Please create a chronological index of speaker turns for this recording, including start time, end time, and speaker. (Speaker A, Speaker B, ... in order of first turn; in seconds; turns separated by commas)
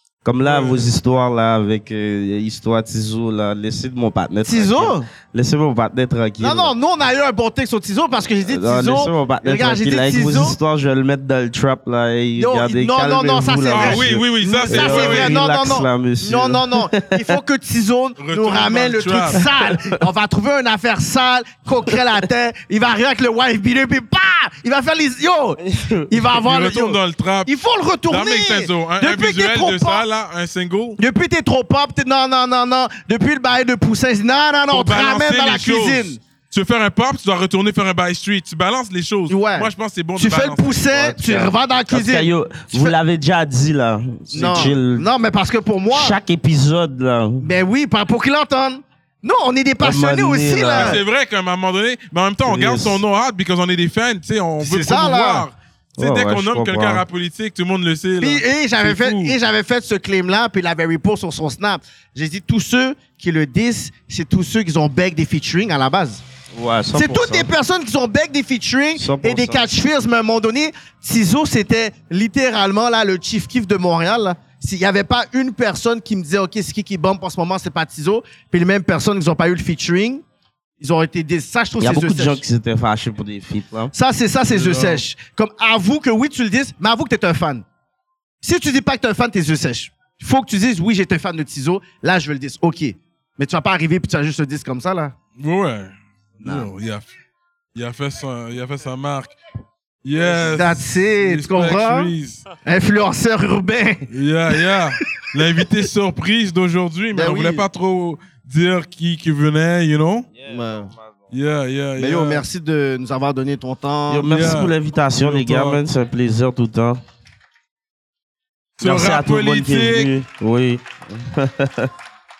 Speaker A: 0.2-6.7, Speaker B: 0.4-0.8, Speaker C: 4.4-5.1, Speaker C: 6.4-10.6, Speaker A: 8.5-17.2, Speaker C: 12.3-30.1, Speaker B: 13.7-15.4, Speaker B: 18.2-19.4, Speaker A: 19.3-20.0, Speaker A: 25.6-26.2, Speaker B: 26.4-27.5, Speaker B: 28.1-31.0, Speaker C: 31.0-36.2, Speaker B: 34.7-41.2, Speaker C: 39.3-42.9, Speaker A: 41.2-45.1, Speaker C: 44.3-46.2, Speaker A: 45.9-47.4, Speaker C: 47.4-51.0, Speaker A: 49.8-51.0, Speaker B: 50.7-59.4, Speaker A: 52.4-53.0, Speaker C: 54.6-55.5, Speaker A: 56.0-57.0, Speaker C: 58.2-66.2, Speaker A: 66.5-67.5, Speaker C: 66.9-80.2, Speaker A: 68.9-69.7, Speaker C: 80.8-82.4, Speaker A: 81.8-83.9, Speaker C: 83.9-87.6, Speaker B: 84.5-85.0, Speaker C: 88.4-95.1, Speaker B: 95.4-97.1, Speaker B: 97.7-99.3, Speaker B: 100.0-102.4, Speaker C: 100.2-104.1, Speaker B: 104.1-110.3, Speaker C: 107.1-107.6, Speaker A: 110.3-111.2, Speaker C: 110.5-110.9, Speaker B: 111.3-112.4, Speaker C: 112.0-114.3, Speaker A: 114.1-117.0, Speaker B: 114.3-115.8, Speaker B: 118.8-120.1, Speaker A: 118.8-121.9